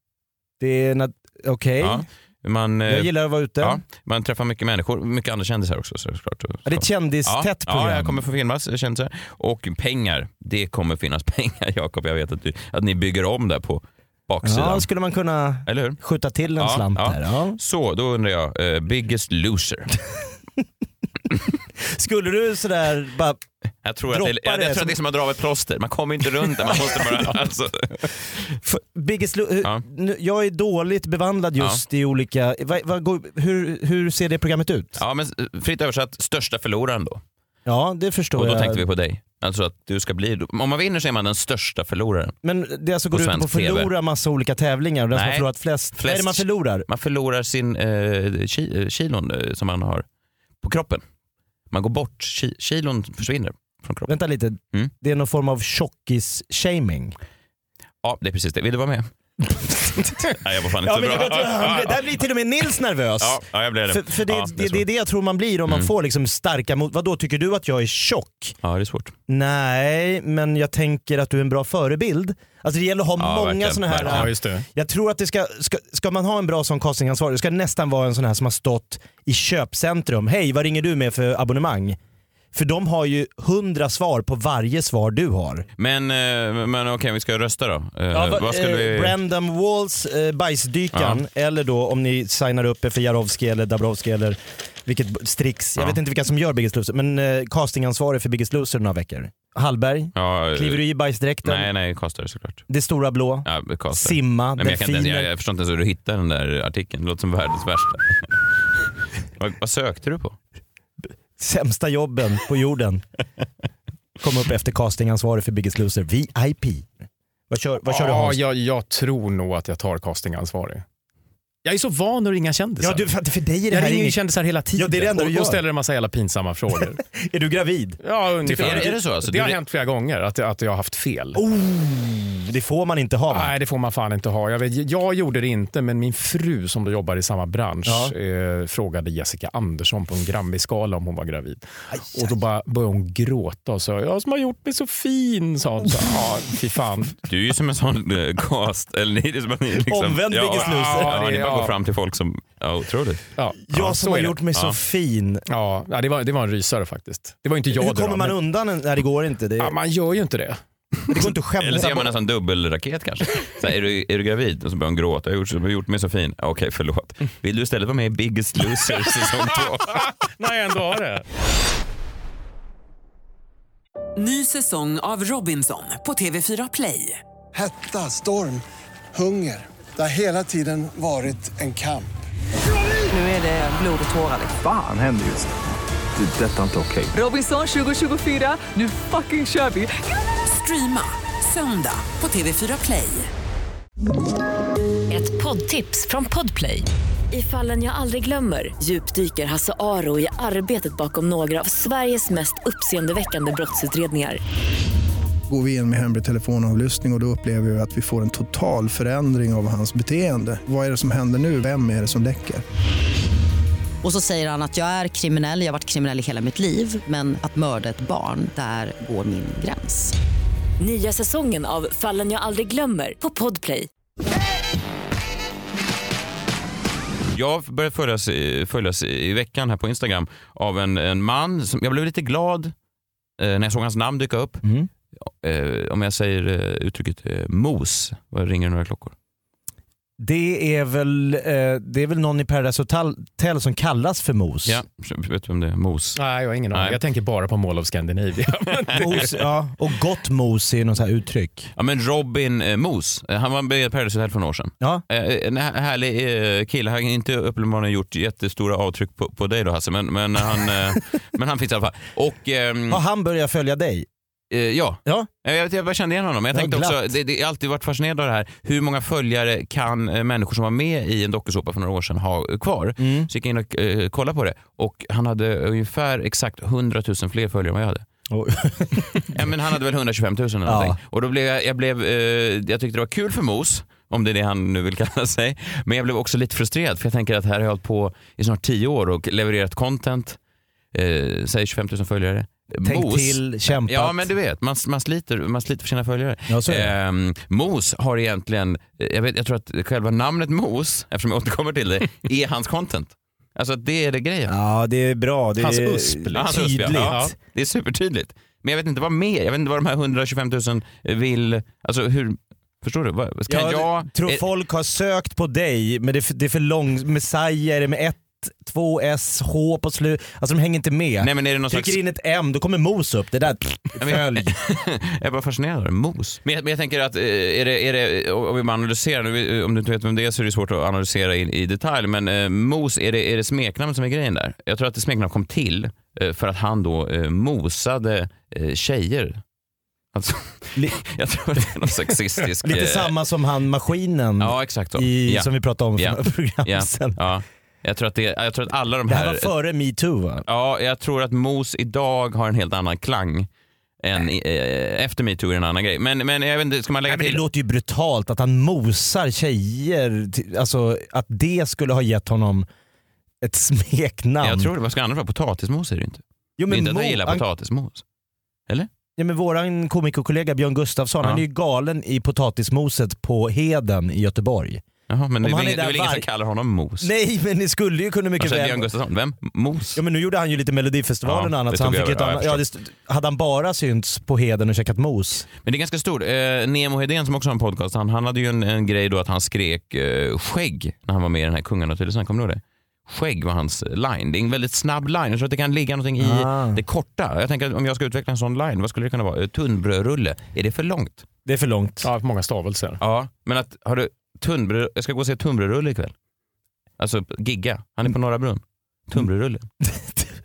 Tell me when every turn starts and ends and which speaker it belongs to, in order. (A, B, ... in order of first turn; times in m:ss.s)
0:00.6-0:02.0 A
0:01.8-0:14.9 B
0:02.9-0:03.8 A
0:06.6-0:08.2 A
0:14.4-0:17.6 A
0:15.6-0:16.0 B
0:16.6-0:20.0 B
0:21.8-0:23.4 A
0:23.8-0:28.2 B
0:24.1-0:24.9 A
0:26.7-0:27.0 A
0:28.6-0:35.0 A
0:35.0-0:37.2 B
0:37.6-0:38.8 A
0:38.4-0:42.4 B
0:42.4-0:46.8 A
0:43.1-0:43.9 B
0:45.1-0:50.0 B
0:50.6-0:51.0 B
0:51.7-0:54.2 B
0:54.1-0:57.1 A
0:58.0-0:59.1 B
0:59.9-1:00.1 A
1:00.2-1:02.0 B
1:00.8-1:08.6 A
1:03.2-1:04.8 B
1:08.6-1:09.1 B
1:09.3-1:22.0 A
1:13.2-1:14.3 B
1:14.0-1:14.6 C
1:22.5-1:25.6 A
1:25.8-1:29.2 B
1:28.1-1:41.7 A
1:30.9-1:31.2 B
1:40.1-1:40.8 B
1:41.4-1:42.6 B
1:42.7-1:45.3 A
1:43.4-1:48.4 B
1:49.4-1:50.4 B
1:51.4-1:53.0 A
1:54.2-1:56.9 A
1:57.5-1:58.4 A
1:57.8-2:00.8 C
2:01.6-2:03.1 C
2:02.8-2:04.2 A
2:03.7-2:07.0 C
2:04.7-2:05.6 A
2:07.1-2:08.0 A
2:08.0-2:11.4 C
2:08.5-2:09.6 B
2:08.5-2:08.9 A
2:11.3-2:13.5 A
2:13.3-2:27.2 C
2:17.8-2:18.1 A
2:27.3-2:33.2 B
2:29.8-2:31.2 A
2:30.5-2:31.8 C
2:33.4-2:34.4 C
2:33.7-2:35.4 A
2:35.5-2:38.4 C
2:37.7-2:39.7 A
2:39.6-2:40.6 C
2:41.0-2:50.1 B
2:41.1-2:42.1 A
2:49.9-2:51.2 C
2:54.2-2:57.2 D
2:57.5-3:02.1 E
3:03.1-3:04.5 F
3:04.5-3:05.5 G
3:06.1-3:07.2 G
3:07.1-3:13.3 D
3:15.1-3:24.4 H
3:25.5-3:32.6 I
3:34.0-3:40.1 F
3:40.8-3:43.9 H
3:47.3-3:52.7 B
3:53.4-3:54.6 B
3:54.6-3:54.9 A
3:55.2-3:59.1 B
4:00.2-4:04.8 A
4:04.6-4:06.2 B
4:06.1-4:09.3 C
4:06.7-4:07.0 B
4:08.9-4:11.7 A
4:11.8-4:23.0 B
4:22.9-4:24.0 A
4:24.5-4:38.0 B
4:26.5-4:27.0 A
4:33.0-4:33.3 A
4:38.3-4:39.3 A
4:39.3-4:50.4 B
4:40.6-4:41.0 A
4:50.9-5:04.5 B
4:52.8-4:54.3 A
4:56.5-4:56.9 A
5:04.5-5:07.3 A
5:05.6-5:07.3 C
5:06.3-5:14.4 B
5:13.5-5:24.5 A
5:21.2-5:22.0 B
5:24.0-5:39.4 B
5:40.1-5:43.1 B
5:42.6-5:47.2 A
5:44.4-5:49.5 B
5:49.1-5:50.4 A
5:50.5-5:53.5 B
5:54.0-5:57.4 B
5:57.1-6:02.6 A
6:03.4-6:04.7 A
6:04.4-6:08.0 B
6:06.6-6:07.4 A
6:09.2-6:14.8 A
6:15.1-6:17.1 B
6:15.4-6:16.2 A
6:17.0-6:18.9 A
6:18.4-6:20.0 B
6:20.0-6:25.4 A
6:21.2-6:22.6 B
6:25.6-6:41.2 B
6:36.2-6:36.8 A
6:41.4-6:42.1 A
6:42.0-6:43.0 C
6:43.0-6:46.1 B
6:47.0-6:49.7 B
6:49.8-6:50.2 A